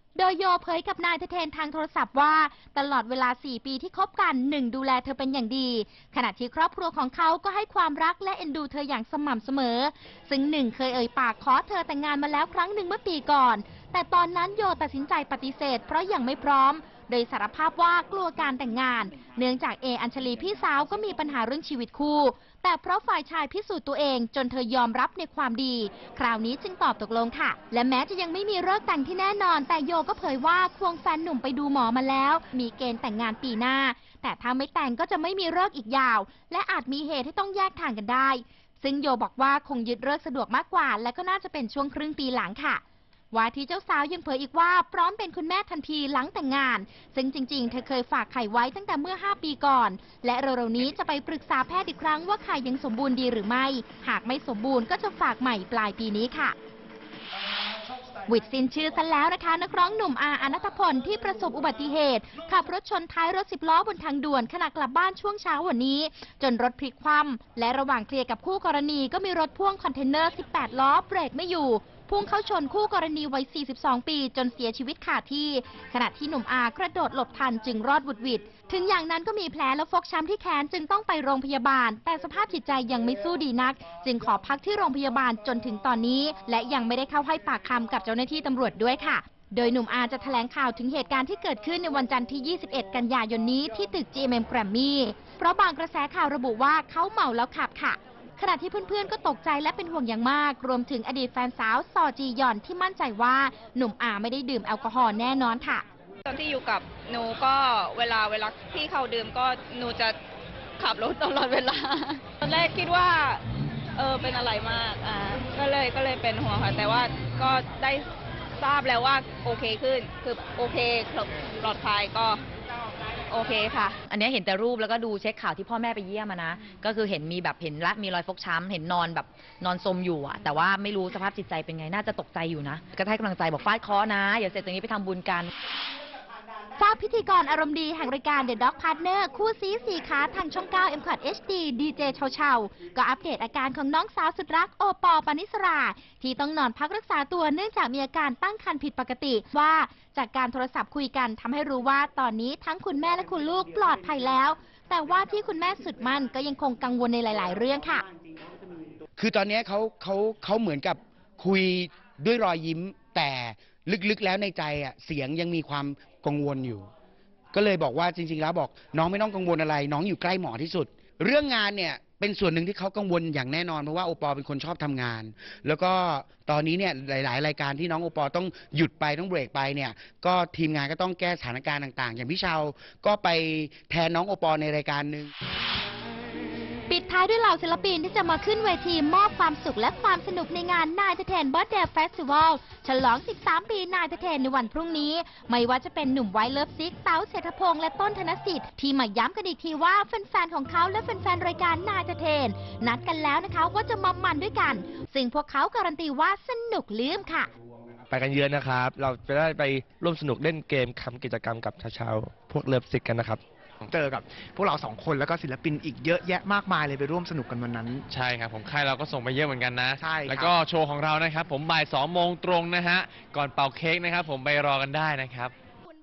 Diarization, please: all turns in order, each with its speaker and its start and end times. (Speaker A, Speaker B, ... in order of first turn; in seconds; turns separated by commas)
Speaker A: 0.2-42.8, Speaker A: 43.3-56.5, Speaker A: 58.3-105.8, Speaker B: 106.3-110.2, Speaker B: 110.8-113.4, Speaker B: 114.0-118.1, Speaker B: 118.6-122.4, Speaker B: 123.3-124.0, Speaker C: 124.1-135.5, Speaker A: 136.8-158.0, Speaker D: 159.2-166.9, Speaker D: 167.5-185.3, Speaker A: 186.9-207.5, Speaker E: 208.1-213.4, Speaker F: 209.1-211.3, Speaker G: 213.9-218.1, Speaker F: 218.1-225.5, Speaker G: 220.0-220.6